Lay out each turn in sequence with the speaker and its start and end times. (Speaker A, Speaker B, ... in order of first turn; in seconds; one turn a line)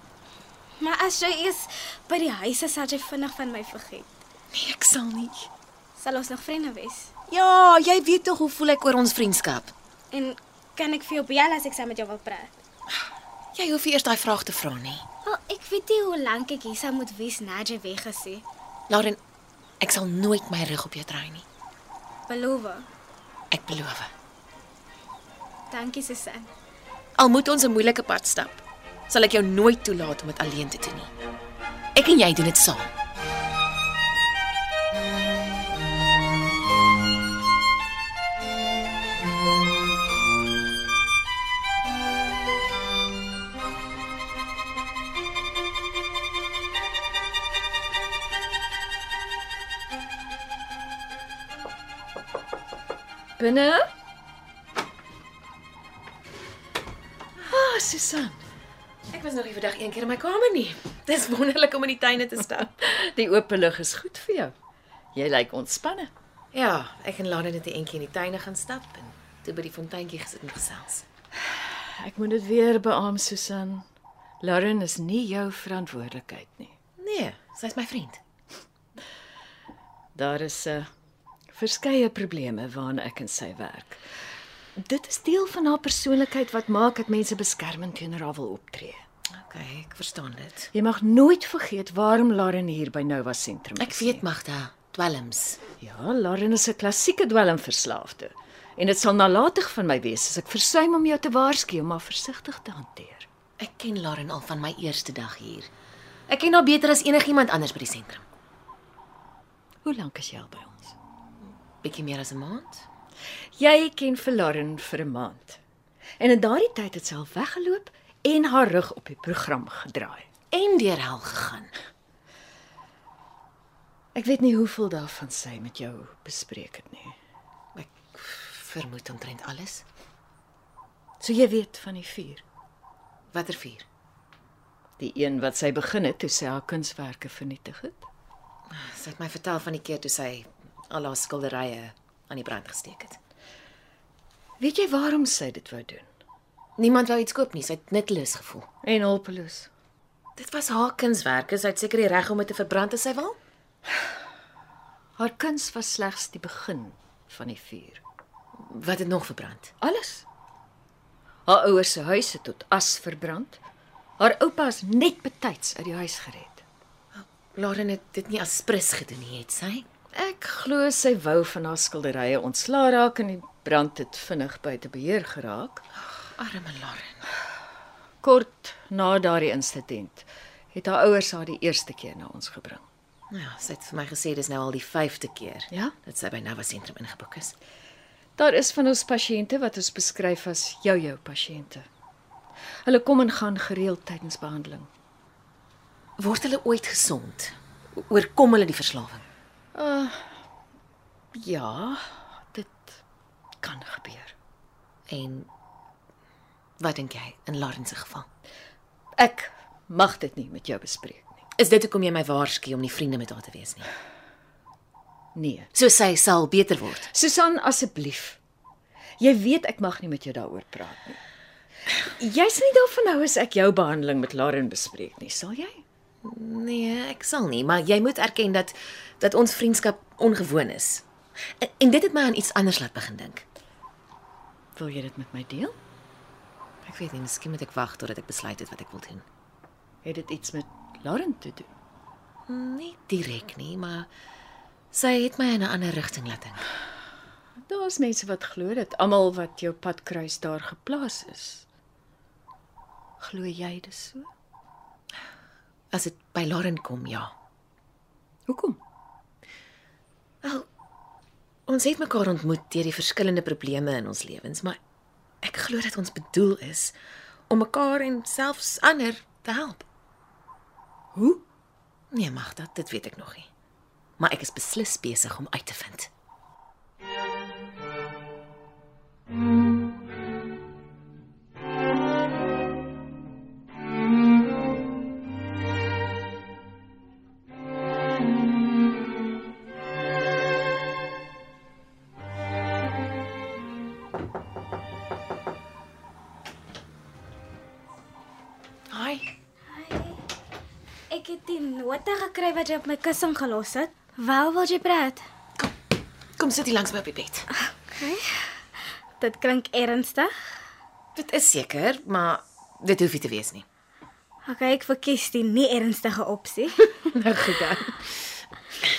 Speaker A: 0.8-4.1
Speaker B: 4.5-5.5
Speaker A: 6.0-7.1
Speaker B: 7.3-9.7
Speaker A: 10.1-12.6
Speaker B: 13.6-15.1
Speaker A: 15.2-18.4
Speaker B: 18.9-19.2
Speaker B: 19.8-21.5
Speaker A: 22.3-22.9
Speaker B: 23.5-24.1
Speaker A: 25.7-26.5
Speaker B: 27.2-31.1
Speaker B: 32.0-32.9
Speaker C: 53.4-53.9
Speaker C: 57.5-58.4
Speaker B: 59.1-62.7
Speaker C: 62.8-64.5
Speaker C: 65.1-66.1
Speaker B: 66.5-71.0
Speaker C: 71.6-73.9
Speaker C: 74.4-76.7
Speaker B: 77.0-78.2
Speaker C: 80.2-80.9
Speaker C: 81.5-84.0
Speaker C: 84.8-89.0
Speaker B: 89.3-90.7
Speaker C: 90.7-94.2
Speaker B: 93.8-95.6
Speaker C: 95.8-103.3
Speaker B: 103.6-105.7
Speaker B: 106.3-108.2
Speaker C: 109.8-111.0
Speaker B: 111.8-112.9
Speaker C: 113.6-115.6
Speaker C: 116.2-120.3
Speaker B: 120.5-121.7
Speaker C: 124.2-127.2
Speaker B: 127.8-129.8
Speaker C: 131.2-132.4
Speaker B: 133.3-133.9
Speaker C: 135.0-138.1
Speaker B: 138.7-143.2
Speaker C: 144.6-146.1
Speaker B: 146.8-148.7
Speaker C: 148.8-149.7
Speaker B: 150.4-153.4
Speaker C: 155.2-158.0
Speaker B: 158.6-159.7
Speaker C: 159.8-160.2
Speaker C: 161.5-163.6
Speaker C: 164.2-166.6
Speaker B: 167.2-169.9
Speaker C: 170.1-175.8
Speaker B: 176.4-177.2
Speaker C: 178.2-182.8
Speaker B: 183.3-187.6
Speaker C: 188.4-191.9
Speaker C: 192.9-194.9
Speaker B: 196.2-199.2
Speaker C: 199.8-200.4
Speaker C: 201.4-202.0
Speaker C: 202.5-203.0
Speaker C: 203.6-204.3
Speaker B: 205.1-205.5
Speaker B: 206.8-208.3
Speaker C: 209.2-211.4
Speaker B: 211.6-213.9
Speaker C: 215.3-215.7
Speaker B: 215.7-217.1
Speaker C: 217.1-218.4
Speaker C: 219.2-221.2
Speaker C: 222.2-225.8
Speaker B: 226.2-231.1
Speaker B: 231.6-233.4
Speaker C: 234.8-235.8
Speaker B: 236.8-239.2
Speaker C: 240.0-241.7
Speaker B: 242.5-244.1
Speaker B: 244.9-246.7
Speaker C: 247.6-251.7
Speaker C: 253.2-254.3
Speaker B: 255.9-257.3
Speaker C: 258.5-258.8
Speaker B: 261.7-264.8
Speaker B: 265.4-266.9
Speaker B: 267.5-269.9
Speaker C: 271.1-271.4
Speaker B: 272.1-273.5
Speaker B: 274.2-276.1
Speaker B: 298.9-299.3
Speaker A: 299.7-300.2
Speaker A: 301.1-305.2
Speaker B: 306.4-307.5
Speaker A: 307.9-308.5
Speaker A: 309.2-310.3
Speaker B: 311.2-313.6
Speaker A: 314.5-316.8
Speaker B: 317.0-318.1